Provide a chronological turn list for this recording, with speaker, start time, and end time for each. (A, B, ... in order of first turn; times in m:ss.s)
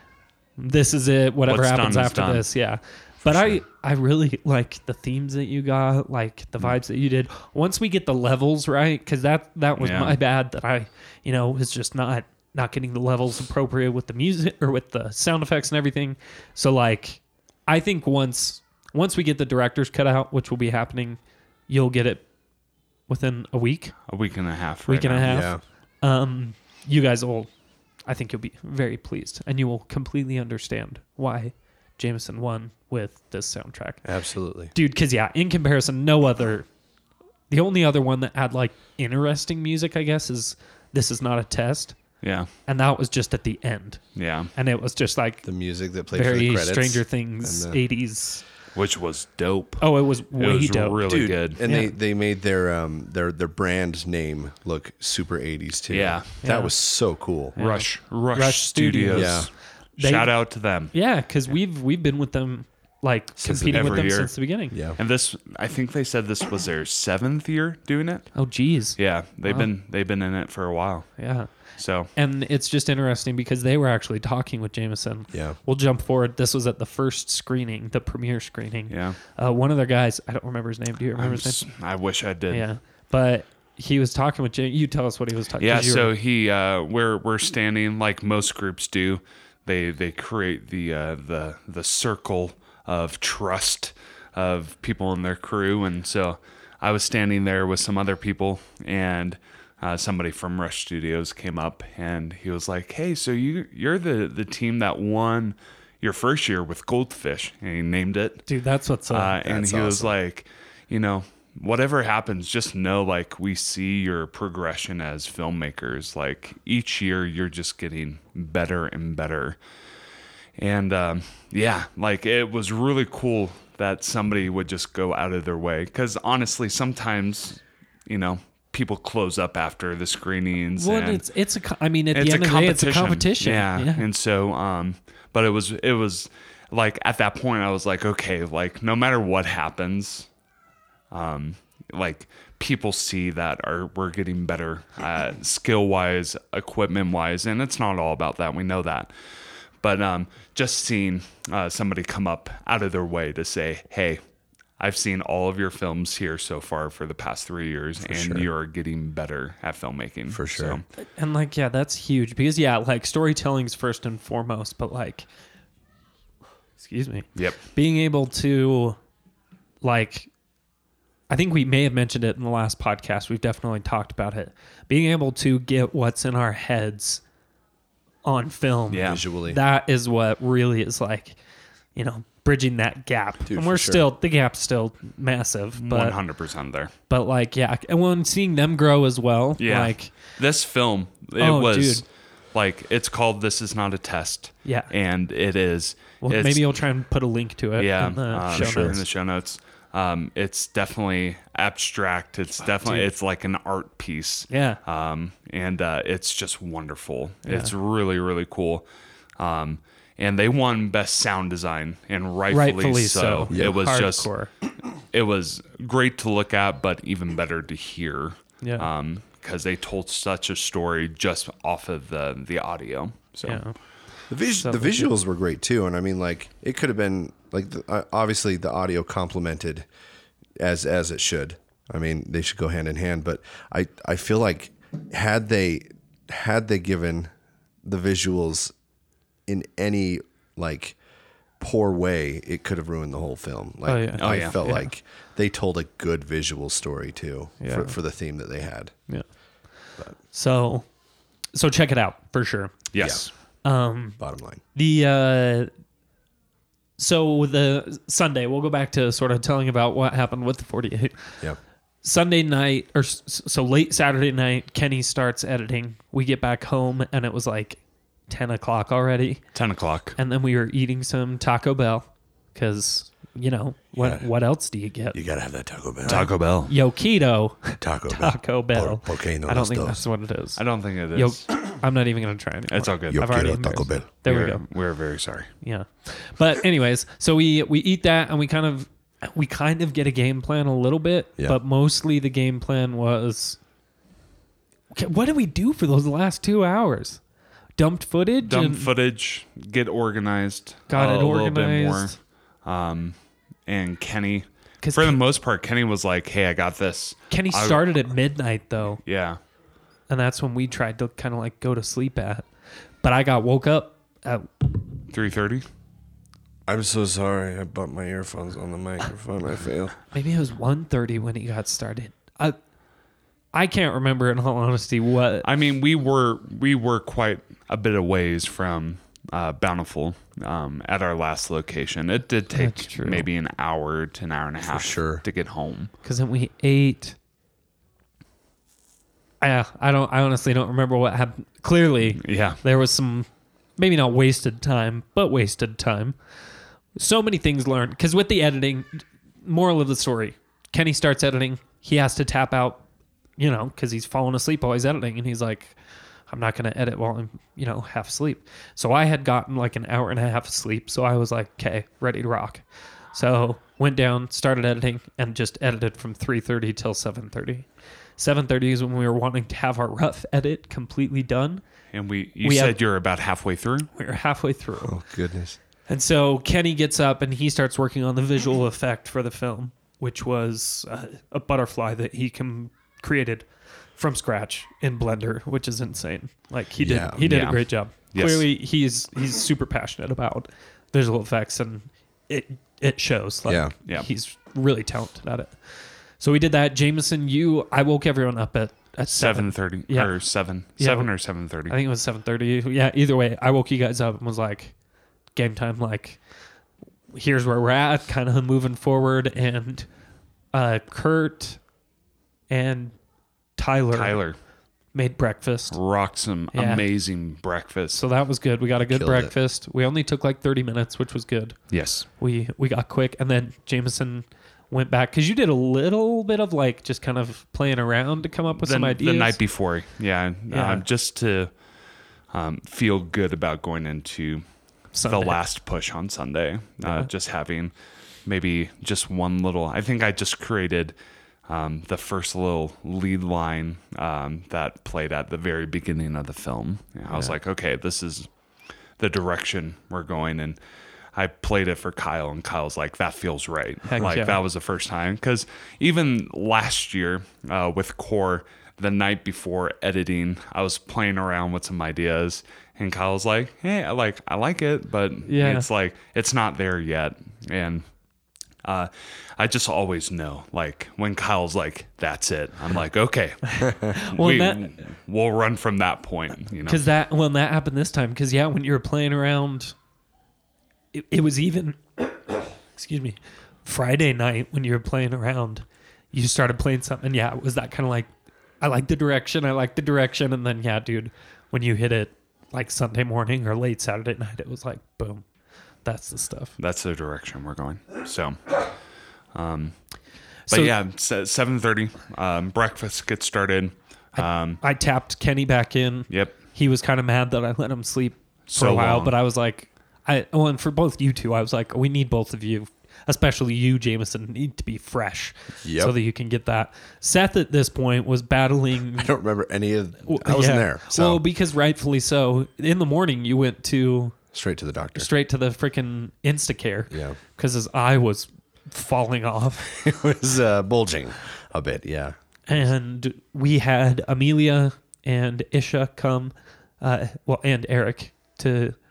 0:00.6-0:22.2 A
0:01.5-0:02.5 B
0:09.8-0:10.2 B
0:23.1-0:24.0 A
0:24.1-0:25.4 B
0:24.9-0:27.5 A
0:25.2-0:25.6 C
0:28.1-0:34.0 A
0:34.0-0:34.7 C
0:34.7-0:36.7 A
0:37.5-0:42.0 A
0:42.2-0:42.5 B
0:42.7-0:44.0 A
0:44.2-0:44.5 B
0:44.6-0:45.4 A
0:45.4-0:47.8 C
0:46.1-0:48.4 A
0:48.8-0:51.6 B
0:49.8-0:51.0 A
0:51.0-0:57.6 C
0:51.6-0:51.9 A
0:55.9-0:56.3 B
0:56.4-0:56.7 A
0:57.6-0:59.5 A
0:57.6-1:00.9 B
0:59.1-0:59.5 C
1:00.0-1:00.4 A
1:00.9-1:04.8 A
1:03.4-1:04.2 C
1:03.7-1:04.4 B
1:04.7-1:05.0 C
1:05.0-1:08.3 B
1:08.4-1:09.7 A
1:09.0-1:11.1 B
1:11.2-1:11.5 A
1:11.8-1:12.1 B
1:12.2-1:21.6 A
1:15.3-1:15.6 C
1:18.9-1:19.2 B
1:21.2-1:22.7 B
1:22.5-1:26.1 A
1:25.6-1:48.4 B
1:48.5-1:49.4 A
1:49.1-1:59.6 B
1:49.4-1:50.1 C
2:00.6-2:11.2 B
2:10.8-2:14.1 A
2:12.1-2:20.3 B
2:21.1-2:29.1 B
2:29.8-2:34.2 B
2:34.8-2:40.8 B
2:38.0-2:38.5 C
2:40.3-2:40.8 C
2:41.0-2:45.3 A
2:46.8-2:49.0 A
2:49.8-2:50.3 A
2:51.3-2:57.2 A
2:58.2-3:01.4 A
2:58.9-2:59.2 B
2:59.0-2:59.6 C
3:02.0-3:06.2 A
3:03.5-3:04.1 C
3:05.8-3:06.9 B
3:07.1-3:10.1 A
3:09.6-3:16.6 B
3:11.4-3:12.0 A
3:14.6-3:14.9 A
3:16.2-3:19.0 A
3:17.8-3:28.8 B
3:18.5-3:19.0 C
3:24.5-3:24.8 A
3:27.5-3:27.7 A
3:29.4-3:34.3 B
3:32.5-3:34.5 A
3:33.5-3:33.8 C
3:35.0-3:43.6 B
3:38.6-3:38.9 A
3:43.4-3:43.8 A
3:44.3-3:49.9 C
3:44.5-3:45.1 A
3:50.6-3:57.3 C
3:57.8-3:58.7 C
3:59.5-4:01.0 C
4:01.6-4:08.9 C
4:03.9-4:04.9 A
4:04.2-4:04.6 B
4:07.6-4:08.0 A
4:10.3-4:10.9 A
4:11.5-4:12.9 A
4:12.9-4:13.3 B
4:13.6-4:14.2 A
4:14.2-4:14.6 C
4:14.7-4:15.7 A
4:17.0-4:21.4 A
4:22.0-4:29.4 A
4:29.5-4:30.2 B
4:30.2-4:35.2 A
4:34.0-4:34.3 C
4:35.1-4:36.3 C
4:36.0-4:44.7 A
4:36.1-4:36.7 B
4:37.8-4:40.0 C
4:40.6-4:41.5 B
4:42.7-4:43.2 B
4:43.1-4:44.1 C
4:44.2-4:45.5 B
4:45.6-4:53.6 A
4:54.9-4:57.2 A
4:57.8-4:58.9 A
4:58.4-5:03.2 B
5:00.9-5:02.2 A
5:03.7-5:08.0 B
5:04.8-5:05.2 A
5:07.3-5:09.0 A
5:09.0-5:09.4 B
5:10.1-5:12.4 A
5:13.0-5:14.7 A
5:15.1-5:15.6 B
5:16.7-5:20.0 C
5:20.1-5:22.6 A
5:23.5-5:25.5 A
5:25.4-5:35.9 B
5:32.6-5:33.3 A
5:34.6-5:35.2 C
5:36.0-5:37.2 A
5:39.4-5:46.2 A
5:42.2-5:42.6 B
5:47.0-5:52.8 A
5:53.4-5:55.8 A
5:56.3-6:07.7 A
6:08.2-6:11.6 A
6:11.9-6:13.9 B
6:12.4-6:12.8 A
6:13.9-6:15.0 A
6:14.8-6:15.6 C
6:15.9-6:40.1 A
6:26.8-6:27.2 C
6:27.2-6:28.4 B
6:33.5-6:33.7 C
6:39.1-6:41.8 B
6:40.8-6:41.1 A
6:41.7-6:44.7 A
6:45.4-6:46.2 A
6:47.1-6:49.9 A
6:50.5-6:51.6 A
6:52.5-6:53.0 A
6:53.6-6:54.2 A
6:53.9-6:54.4 B
6:54.9-6:55.8 A
6:55.7-6:58.0 B
6:56.5-6:56.9 A
6:57.9-7:01.6 A
6:58.9-6:59.3 C
7:01.7-7:02.1 B
7:02.2-7:09.4 A
7:08.6-7:11.5 B
7:10.5-7:10.8 A
7:12.3-7:14.4 B
7:14.9-7:15.4 A
7:15.0-7:17.7 B
7:18.3-7:21.0 B
7:21.5-7:28.3 B
7:27.1-7:27.4 A
7:29.0-7:30.6 B
7:31.1-7:47.8 B
7:33.9-7:34.4 A
7:45.3-7:45.7 A
7:48.6-7:56.9 B
7:53.4-7:54.6 A
7:56.7-7:59.8 A
8:00.9-8:08.1 A
8:08.6-8:15.2 A
8:15.8-8:16.6 A
8:16.6-8:18.7 B
8:19.3-8:19.8 B
8:20.5-8:20.7 A
8:20.5-8:24.6 B
8:24.2-8:39.1 A
8:26.1-8:26.4 B
8:28.5-8:29.1 B
8:35.6-8:36.0 C
8:39.0-8:41.2 C
8:40.0-8:44.2 A
8:44.3-8:45.1 C
8:45.0-8:49.7 A
8:46.9-8:47.2 C
8:49.7-8:52.2 C
8:52.5-8:58.8 A